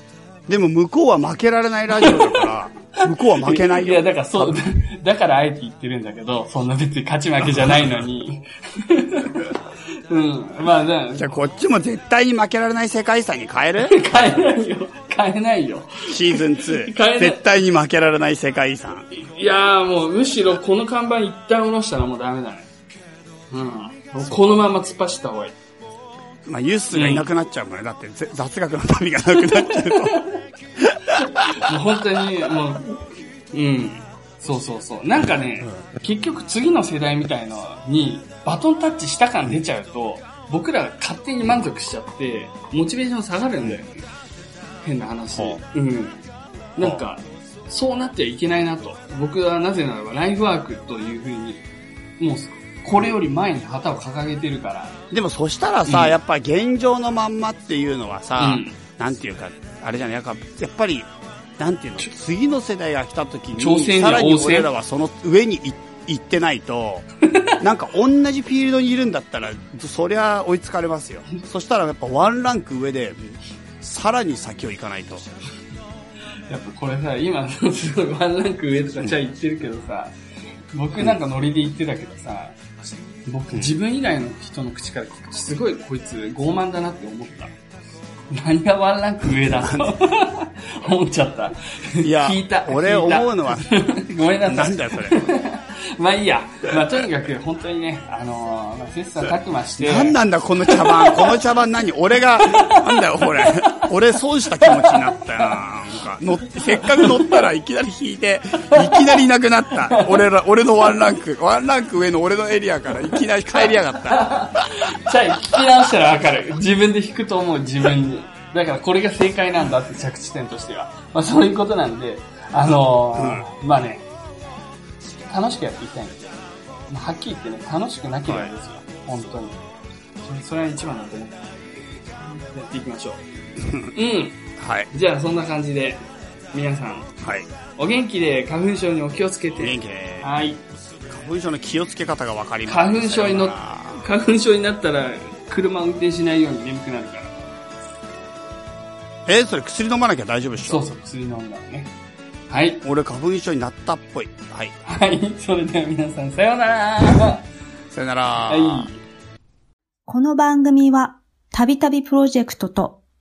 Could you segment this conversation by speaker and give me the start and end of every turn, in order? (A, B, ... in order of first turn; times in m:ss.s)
0:00.5-0:04.6 A
0:01.9-0:11.3 B
0:07.5-0:07.9 A
0:11.2-0:14.0 A
0:13.8-0:17.4 B
0:16.1-0:19.1 A
0:19.1-0:22.7 B
0:23.5-0:25.6 B
0:24.2-0:24.5 A
0:26.4-0:30.3 A
0:26.9-0:27.3 B
0:30.8-0:31.8 A
0:31.4-0:44.0 B
0:44.8-0:46.2 B
0:45.3-0:45.6 A
0:46.8-0:51.6 B
0:52.2-0:55.0 B
0:55.1-1:07.1 A
0:55.8-0:56.2 B
0:58.4-0:58.8 B
1:03.6-1:04.7 B
1:07.3-1:07.6 B
1:07.6-1:15.3 A
1:16.5-1:20.1 B
1:20.7-1:22.6 B
1:23.2-1:27.5 B
1:28.3-1:41.4 B
1:29.6-1:30.0 A
1:32.0-1:33.8 A
1:34.4-1:35.2 A
1:39.8-1:54.9 A
1:42.4-1:43.9 B
1:44.6-1:45.6 B
1:46.7-1:47.4 B
1:48.7-1:49.2 B
1:49.8-1:50.2 B
1:54.1-2:04.0 B
1:55.4-1:55.7 A
2:03.1-2:03.4 A
2:05.3-2:06.4 B
2:06.9-2:09.6 B
2:08.2-2:08.5 A
2:10.2-2:13.2 B
2:13.6-2:13.9 A
2:13.9-2:17.1 B
2:14.6-2:14.9 A
2:17.2-2:17.5 A
2:17.8-2:20.6 B
2:19.6-2:20.3 A
2:21.1-2:24.1 A
2:22.6-2:27.4 B
2:29.2-2:30.8 A
2:30.6-2:31.9 B
2:32.5-2:32.8 B
2:32.8-2:34.7 A
2:34.8-2:37.4 B
2:37.9-2:38.9 A
2:38.5-2:39.0 B
2:40.1-2:43.0 C